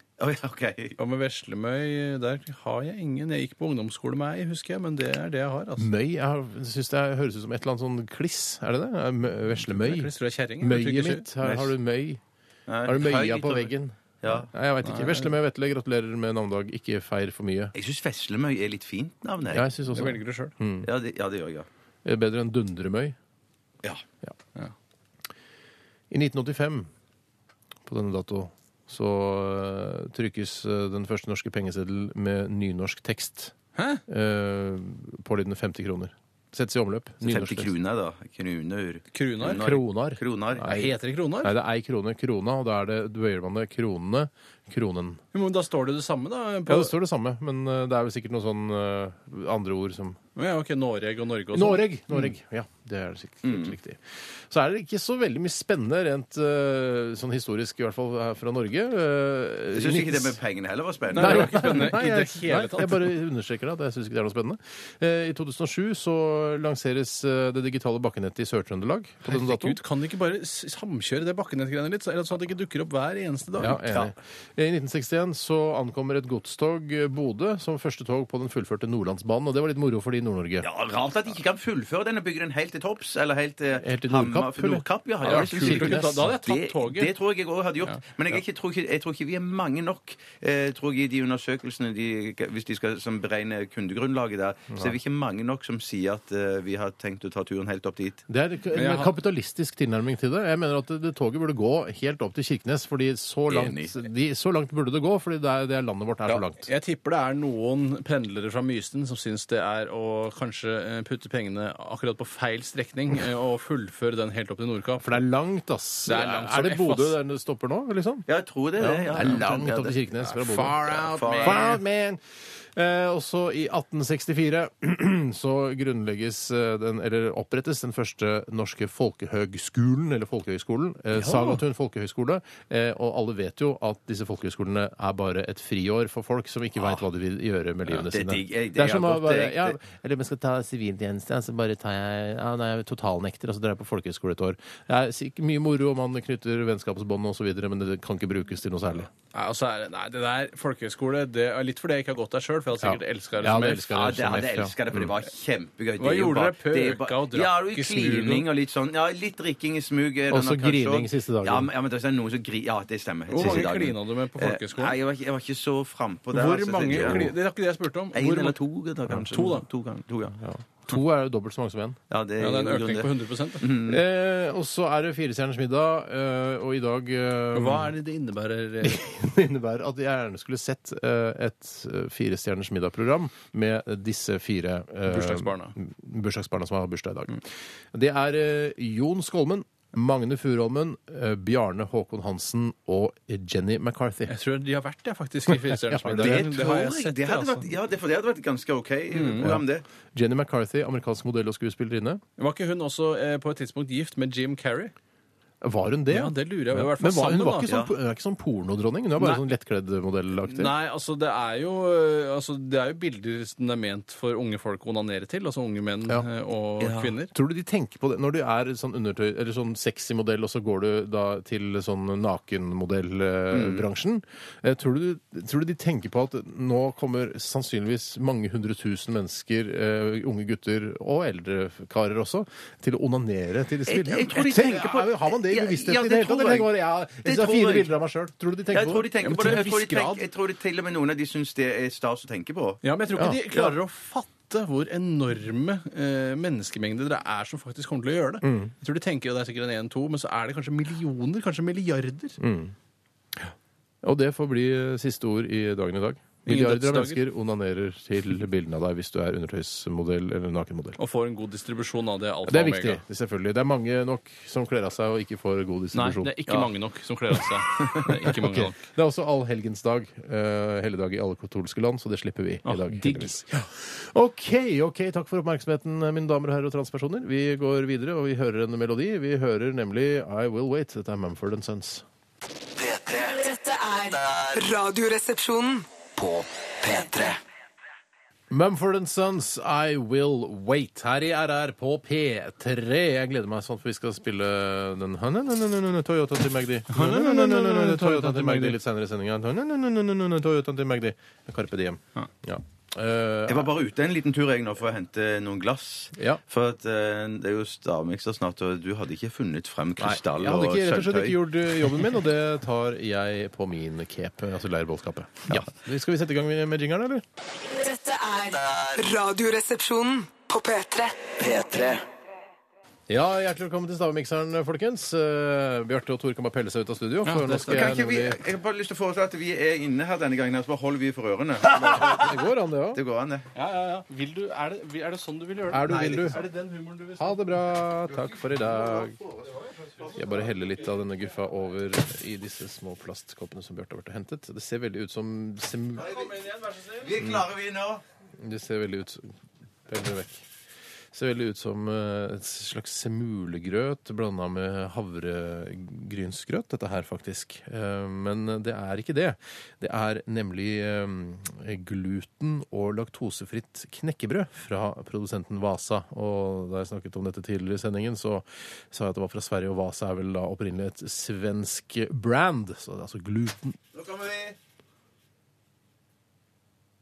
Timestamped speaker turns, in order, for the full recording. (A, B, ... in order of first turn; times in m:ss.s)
0:00.2-0:01.0 A
0:01.0-0:05.9 B
0:05.8-0:12.2 C
0:09.6-0:11.3 B
0:12.7-0:14.5 A
0:12.8-0:17.7 C
0:14.8-0:15.3 B
0:17.7-0:19.7 A
0:19.5-0:20.9 C
0:19.9-0:20.5 B
0:20.8-0:21.7 A
0:22.0-0:23.2 C
0:26.1-0:26.9 C
0:27.8-0:33.5 C
0:33.7-0:34.0 B
0:34.1-0:37.7 C
0:37.2-0:40.7 A
0:39.1-0:39.6 B
0:39.5-0:45.2 C
0:40.6-0:41.5 B
0:45.3-0:46.9 B
0:46.7-0:50.2 C
0:50.4-0:51.8 B
0:51.5-1:00.4 C
0:53.4-0:53.8 A
0:59.7-1:01.6 A
1:01.1-1:03.1 B
1:01.1-1:09.8 C
1:09.2-1:13.8 B
1:13.6-1:20.7 C
1:20.6-1:38.2 A
1:23.8-1:26.3 C
1:25.2-1:27.1 B
1:38.3-1:46.6 C
1:38.7-1:39.1 B
1:43.5-1:43.9 A
1:46.6-1:55.2 B
1:55.0-1:58.3 C
1:56.0-1:57.2 B
1:58.3-2:00.0 A
1:58.8-2:29.1 C
2:00.3-2:01.8 B
2:01.0-2:01.7 A
2:11.3-2:11.6 B
2:17.9-2:19.8 A
2:29.3-2:33.9 B
2:32.8-2:35.1 C
2:33.9-2:47.3 A
2:36.0-2:38.4 B
2:40.3-2:41.7 C
2:43.3-2:45.0 B
2:43.4-2:43.6 C
2:46.3-2:48.6 B
2:47.0-2:47.3 C
2:48.1-2:50.4 A
2:49.3-2:49.6 B
2:50.4-2:52.0 C
2:52.1-2:54.0 A
2:52.4-2:53.7 B
2:53.8-2:57.9 C
2:57.5-2:59.0 B
2:58.8-3:14.3 C
3:05.0-3:05.8 B
3:14.3-3:17.7 B
3:15.5-3:16.5 C
3:16.2-3:19.8 A
3:19.1-3:19.6 B
3:19.4-3:22.2 C
3:22.4-3:24.9 B
3:25.6-3:30.7 C
3:26.1-3:27.7 B
3:27.6-3:27.9 A
3:29.2-3:29.4 B
3:30.5-3:37.3 B
3:36.8-3:37.2 A
3:37.3-3:59.6 C
3:43.5-3:43.8 A
3:53.9-3:56.7 A
3:57.2-3:57.9 A
3:58.7-4:02.8 A
3:59.2-4:00.2 B
4:02.8-4:12.4 B
4:08.4-4:08.7 C
4:12.4-4:12.7 C
4:13.4-4:21.0 C
4:16.4-4:17.2 B
4:21.0-4:23.0 B
4:22.4-4:26.4 C
4:25.9-4:28.8 B
4:27.8-4:28.1 A
4:28.3-4:42.0 C
4:32.6-4:33.4 B
4:42.8-4:43.5 D
4:43.4-4:45.8 E
4:46.2-4:47.4 D
4:48.5-5:03.7 C
4:56.9-4:58.8 B
5:03.5-5:11.9 A
5:10.0-5:17.2 C
5:17.7-5:21.2 E
5:21.2-5:22.0 D
5:23.1-5:28.4 C
5:27.2-5:27.9 B
5:27.5-5:32.3 A
5:31.7-5:32.1 B
5:31.8-5:33.0 C
5:32.9-5:33.5 A
5:33.5-5:37.4 B
5:35.7-5:36.4 C
5:35.9-5:36.4 A
5:37.2-5:39.2 C
5:38.1-5:40.2 A
5:39.6-5:40.4 B
5:40.1-5:46.2 C
5:46.0-5:47.1 B
5:47.0-5:48.0 A
5:48.4-5:49.3 C
5:49.9-5:50.4 C
5:51.1-6:13.8 C
6:13.9-6:14.6 A